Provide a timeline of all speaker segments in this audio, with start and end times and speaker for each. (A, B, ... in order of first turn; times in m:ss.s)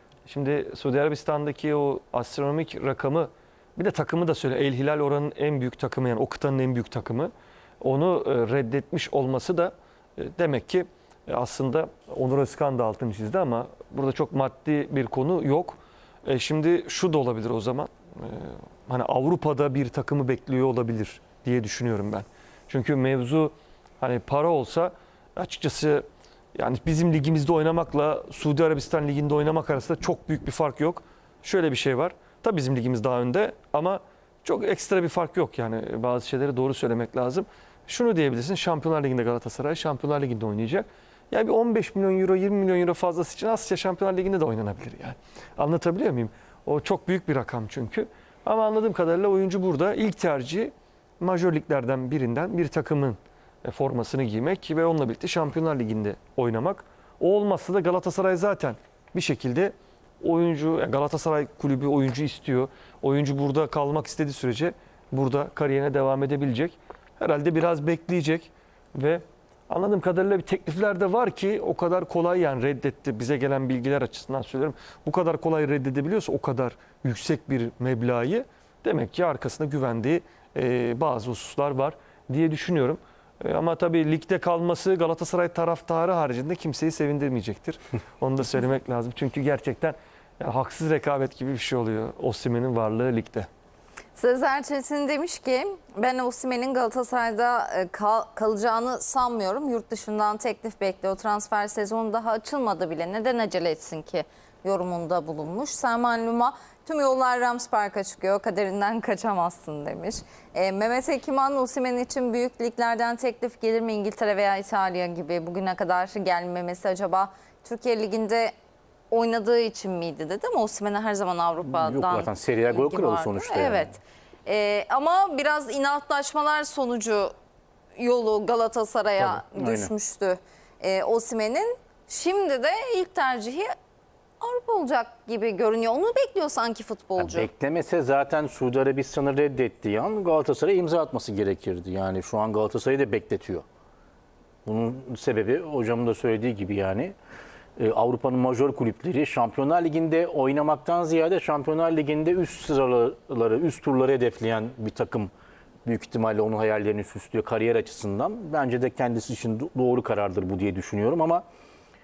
0:00.3-1:33.5 A
1:34.2-1:58.5 B
1:59.1-2:07.3 B
2:01.7-2:03.9 C
2:08.0-2:13.7 B
2:09.2-2:09.9 C
2:14.4-2:17.5 B
2:17.2-2:23.6 C
2:24.6-2:27.1 C
2:27.8-2:35.3 C
2:35.8-2:41.4 C